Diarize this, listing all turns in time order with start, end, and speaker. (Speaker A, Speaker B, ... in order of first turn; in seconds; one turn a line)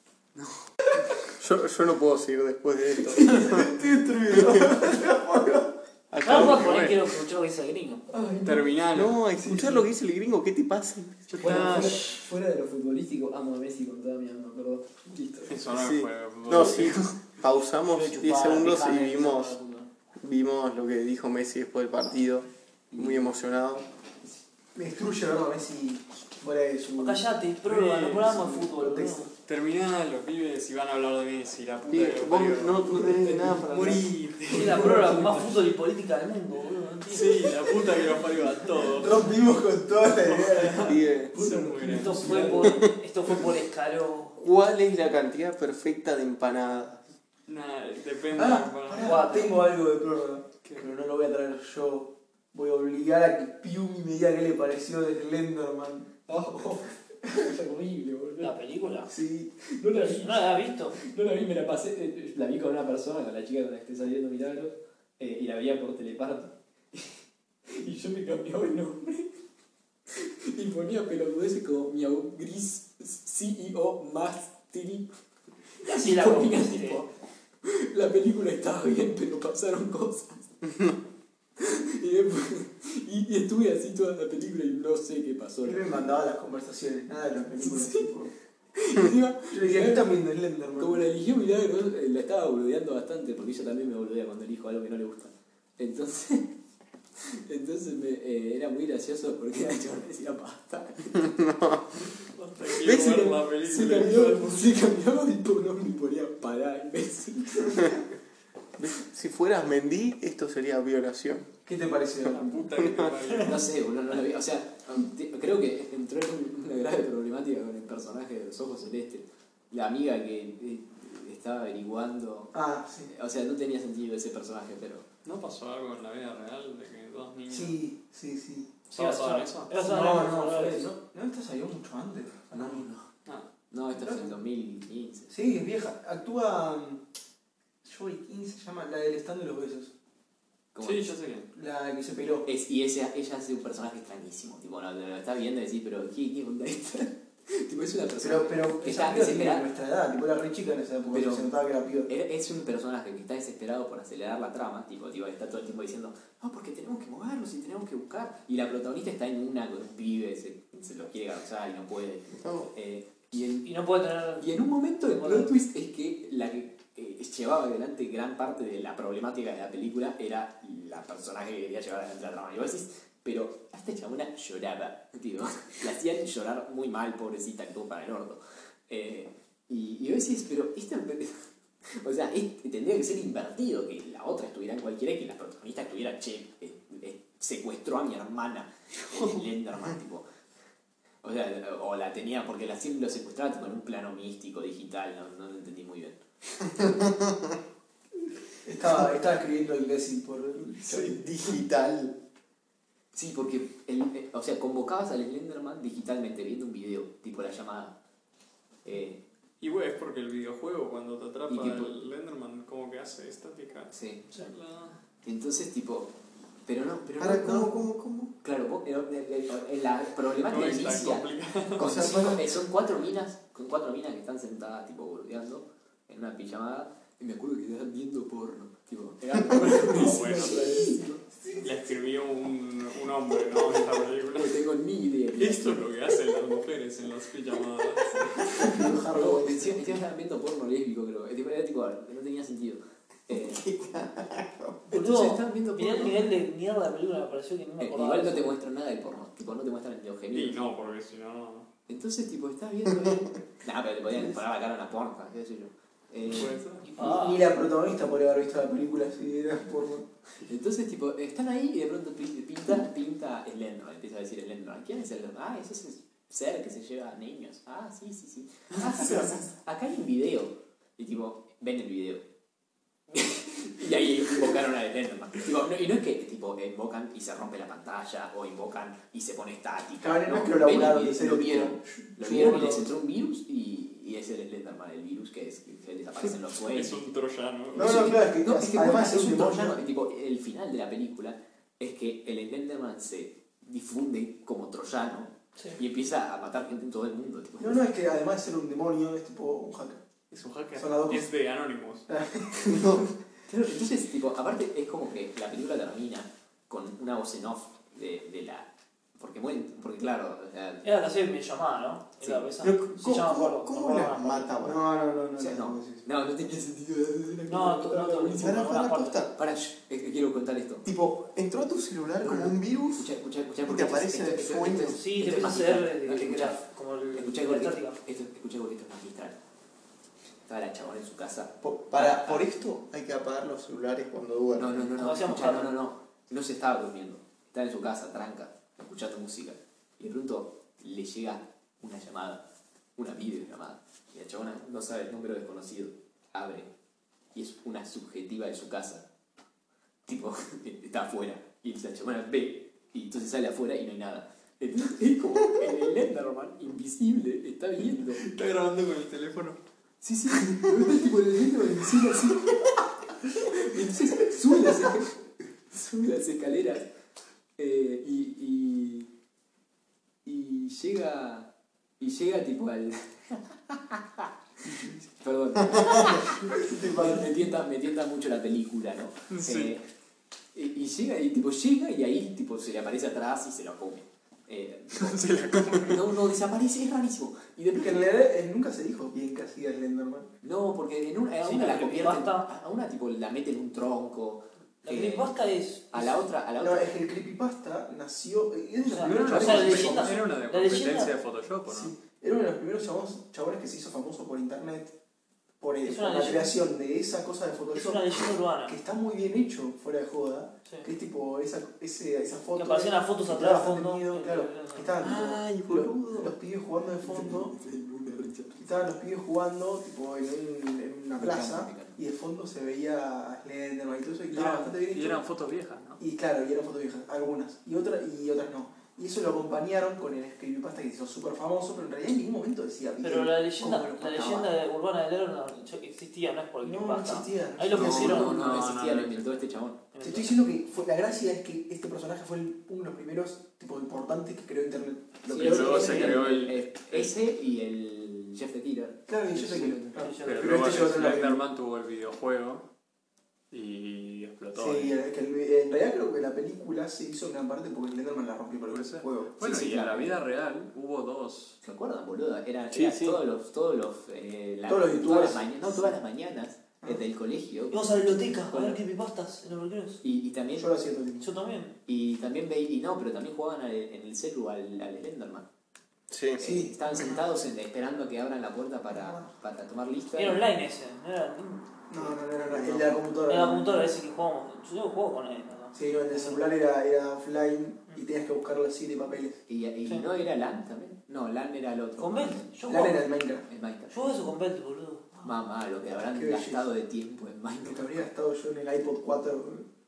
Speaker A: 1.4-5.2
Speaker B: 3.2-5.7
Speaker A: 6.1-7.0
Speaker C: 6.2-8.1
Speaker D: 6.3-7.0
Speaker E: 8.1-8.6
Speaker D: 8.4-9.2
Speaker A: 8.9-11.6
Speaker D: 11.3-12.1
Speaker E: 11.4-15.7
Speaker D: 15.5-17.1
Speaker A: 15.7-19.6
Speaker E: 17.9-19.8
Speaker C: 18.4-19.6
Speaker A: 20.2-23.9
Speaker E: 22.9-23.4
Speaker B: 24.8-27.3
Speaker C: 26.9-29.3
Speaker D: 27.6-28.6
Speaker B: 28.5-29.3
Speaker D: 29.4-35.2
Speaker A: 31.9-34.1
Speaker E: 33.3-33.6
Speaker C: 34.5-37.8
Speaker E: 34.6-35.4
Speaker D: 37.1-39.4
Speaker B: 38.8-42.8
Speaker D: 40.1-42.3
Speaker A: 40.8-41.4
Speaker C: 41.8-44.4
Speaker E: 42.2-42.6
Speaker A: 42.6-42.9
Speaker A: 44.4-47.1
Speaker D: 47.5-49.3
Speaker B: 48.3-56.4
Speaker C: 49.0-49.6
Speaker E: 56.3-58.5
Speaker C: 58.4-59.1
Speaker B: 59.1-59.5
Speaker E: 59.6-69.3
Speaker C: 60.0-61.0
Speaker E: 70.1-75.1
Speaker E: 75.8-77.1
Speaker C: 75.8-77.0
Speaker E: 77.6-80.5
Speaker E: 81.6-86.0
Speaker B: 85.6-88.3
Speaker E: 87.6-88.1
Speaker E: 88.8-90.2
Speaker B: 89.5-91.1
Speaker E: 90.8-96.5
Speaker E: 97.3-101.4
Speaker A: 101.1-102.0
Speaker D: 102.2-104.7
Speaker A: 102.8-103.2
Speaker E: 103.6-108.0
Speaker A: 108.8-111.5
Speaker B: 111.7-112.6
Speaker D: 112.3-113.7
Speaker A: 112.8-113.1
Speaker E: 113.4-122.6
Speaker B: 122.5-123.1
Speaker E: 123.1-125.1
Speaker D: 125.2-127.8
Speaker B: 127.5-128.8
Speaker D: 128.9-129.7
Speaker C: 128.9-130.9
Speaker B: 129.7-132.9
Speaker E: 132.5-133.1
Speaker E: 133.7-135.3
Speaker B: 134.0-134.3
Speaker B: 135.3-137.0
Speaker B: 137.8-139.9
Speaker E: 140.7-141.2
Speaker D: 140.8-141.5
Speaker B: 141.5-142.5
Speaker E: 142.5-149.7
Speaker B: 148.2-152.1
Speaker E: 151.1-151.5
Speaker E: 152.1-163.7
Speaker A: 162.3-162.7
Speaker C: 163.6-164.5
Speaker E: 164.4-190.2
Speaker C: 165.0-165.6
Speaker E: 191.2-196.2
Speaker A: 196.8-197.5
Speaker B: 198.6-201.3
Speaker A: 200.8-202.2
Speaker E: 203.1-208.0
Speaker E: 208.8-209.2
Speaker D: 209.6-215.0
Speaker E: 211.5-211.9
Speaker E: 213.9-214.2
Speaker E: 215.2-216.1
Speaker E: 216.7-217.8
Speaker A: 217.2-218.3
Speaker E: 218.4-231.2
Speaker D: 220.5-222.0
Speaker A: 221.8-222.5
Speaker D: 229.5-230.9
Speaker B: 229.8-231.7
Speaker D: 231.6-234.6
Speaker E: 233.6-235.9
Speaker D: 235.4-238.8
Speaker B: 238.6-240.0
Speaker E: 238.7-243.6
Speaker A: 243.3-244.9
Speaker E: 244.9-246.3
Speaker C: 244.9-248.5
Speaker E: 247.8-250.6
Speaker D: 250.3-251.7
Speaker E: 251.9-256.6
Speaker D: 256.3-256.9
Speaker C: 256.8-257.5
Speaker B: 257.0-260.1
Speaker E: 260.4-272.3
Speaker E: 273.1-287.1
Speaker B: 280.0-282.9
Speaker D: 286.6-288.2
Speaker E: 287.7-297.9
Speaker B: 287.8-289.8
Speaker B: 297.6-300.0
Speaker D: 300.3-302.1
Speaker B: 300.8-301.3
Speaker B: 302.1-303.0
Speaker A: 302.6-303.1
Speaker E: 303.5-310.9
Speaker C: 310.8-314.6
Speaker E: 312.2-312.5
Speaker A: 312.6-314.8
Speaker B: 314.6-316.0
Speaker E: 315.4-318.8
Speaker C: 317.5-319.2
Speaker A: 318.4-319.3
Speaker E: 319.3-320.9
Speaker A: 320.9-323.1
Speaker E: 322.2-329.4
Speaker A: 323.6-325.0
Speaker C: 324.9-328.0
Speaker E: 330.5-332.5
Speaker A: 331.6-334.9
Speaker E: 334.5-342.4
Speaker C: 334.9-335.8
Speaker E: 343.0-346.7
Speaker E: 347.3-349.1
Speaker E: 350.1-358.2
Speaker D: 358.1-359.6
Speaker E: 360.0-362.6
Speaker E: 363.4-366.9
Speaker E: 367.6-369.1
Speaker E: 370.2-374.3
Speaker B: 374.7-375.0
Speaker E: 374.9-379.8
Speaker A: 375.7-376.2
Speaker B: 376.5-377.2
Speaker D: 379.3-379.7
Speaker E: 380.5-388.1
Speaker D: 385.0-386.1
Speaker B: 387.7-390.3
Speaker E: 390.4-395.3
Speaker C: 391.4-392.5
Speaker C: 394.9-396.1
Speaker E: 395.9-396.9
Speaker B: 396.6-400.2
Speaker C: 398.8-401.1
Speaker D: 399.0-401.9
Speaker E: 399.4-399.8
Speaker B: 401.7-404.9
Speaker B: 405.6-417.5
Speaker C: 405.8-406.6
Speaker C: 407.7-408.8
Speaker C: 412.6-414.9
Speaker A: 415.0-416.4
Speaker E: 417.0-418.6
Speaker B: 418.6-425.2
Speaker E: 421.1-422.0
Speaker D: 424.3-426.0
Speaker B: 426.0-434.5
Speaker C: 433.0-438.4
Speaker B: 436.6-438.2
Speaker E: 437.7-439.8
Speaker D: 437.8-439.4
Speaker C: 439.9-440.4
Speaker B: 440.0-446.3
Speaker E: 445.3-450.0
Speaker D: 445.4-447.1
Speaker B: 449.1-451.4
Speaker C: 449.9-451.1
Speaker D: 450.2-452.7
Speaker D: 453.5-455.0
Speaker B: 454.6-459.3
Speaker D: 458.7-461.6
Speaker E: 459.4-460.2
Speaker E: 461.6-468.8
Speaker A: 462.7-463.2
Speaker B: 464.7-465.9
Speaker C: 467.7-470.0
Speaker E: 470.0-470.7
Speaker B: 470.6-471.3
Speaker C: 471.2-471.8
Speaker E: 471.9-475.5
Speaker A: 476.1-476.4
Speaker E: 476.4-480.4
Speaker B: 476.4-477.2
Speaker B: 478.9-479.3
Speaker C: 480.2-481.8
Speaker B: 481.9-483.9
Speaker C: 483.3-486.4
Speaker B: 485.7-489.4
Speaker E: 489.5-492.5
Speaker C: 492.0-493.1
Speaker B: 492.7-493.5
Speaker E: 493.5-494.1
Speaker C: 493.9-495.2
Speaker E: 495.2-498.0
Speaker B: 495.9-496.7
Speaker B: 497.6-499.7